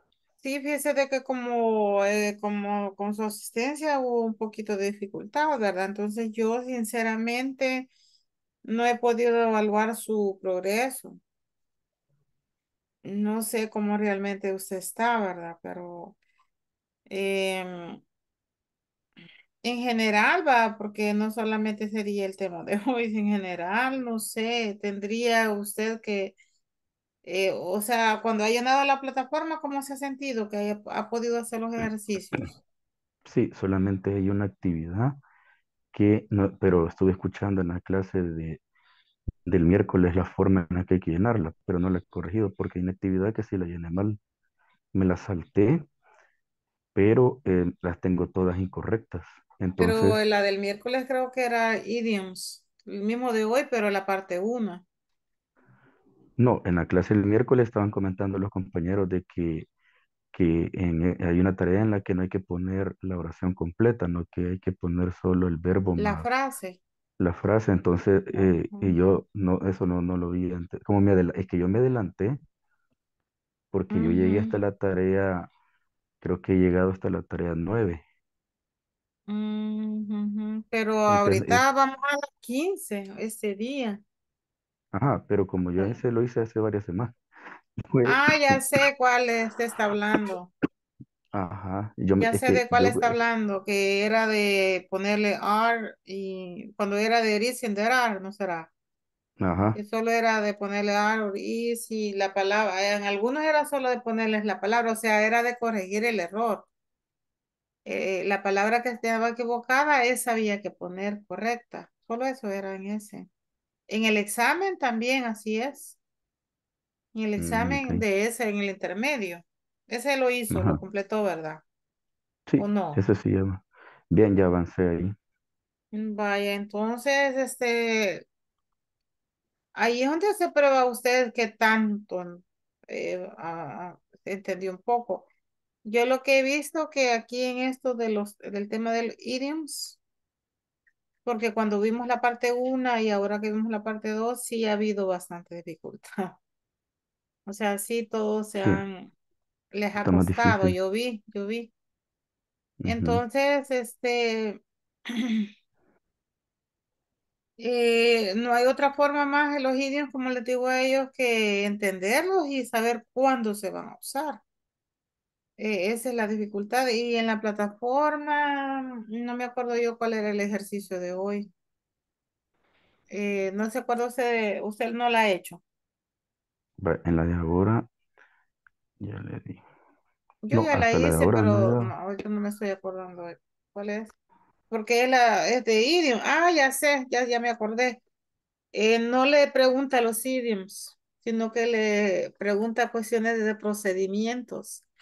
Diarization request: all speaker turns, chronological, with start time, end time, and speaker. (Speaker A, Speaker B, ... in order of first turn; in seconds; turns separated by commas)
Speaker A: 0.4-7.9, Speaker A: 8.6-11.2, Speaker A: 13.1-16.2, Speaker A: 17.1-18.0, Speaker A: 19.6-26.4, Speaker A: 27.2-32.5, Speaker B: 33.3-35.2, Speaker B: 35.9-38.6, Speaker B: 39.5-44.2, Speaker B: 44.9-45.9, Speaker B: 47.0-50.2, Speaker A: 49.8-54.8, Speaker B: 56.4-59.7, Speaker B: 60.3-66.2, Speaker A: 66.0-66.8, Speaker B: 67.2-72.4, Speaker A: 68.4-69.0, Speaker B: 73.7-75.5, Speaker A: 73.9-74.5, Speaker B: 76.2-78.0, Speaker A: 79.3-84.0, Speaker B: 81.1-81.6, Speaker B: 84.9-87.2, Speaker B: 87.9-88.2, Speaker A: 88.1-90.5, Speaker B: 91.3-93.2, Speaker A: 92.2-98.7, Speaker B: 99.4-99.8, Speaker A: 99.8-106.7, Speaker A: 107.8-113.3, Speaker A: 113.9-116.0, Speaker A: 117.1-121.6, Speaker B: 117.4-118.0, Speaker B: 120.5-120.8, Speaker B: 122.5-125.2, Speaker A: 122.6-123.0, Speaker A: 125.9-128.2, Speaker A: 129.8-135.3, Speaker A: 135.8-140.0, Speaker A: 141.3-146.3, Speaker A: 147.5-149.1, Speaker A: 149.7-151.7, Speaker B: 150.0-150.8, Speaker B: 152.8-153.2, Speaker A: 152.9-154.6, Speaker A: 155.1-155.5, Speaker A: 157.6-164.4, Speaker A: 165.6-171.5, Speaker A: 173.1-175.6, Speaker B: 176.8-177.9, Speaker B: 179.0-179.6, Speaker A: 180.4-184.1, Speaker B: 180.5-181.9, Speaker A: 184.7-188.0, Speaker A: 188.7-194.8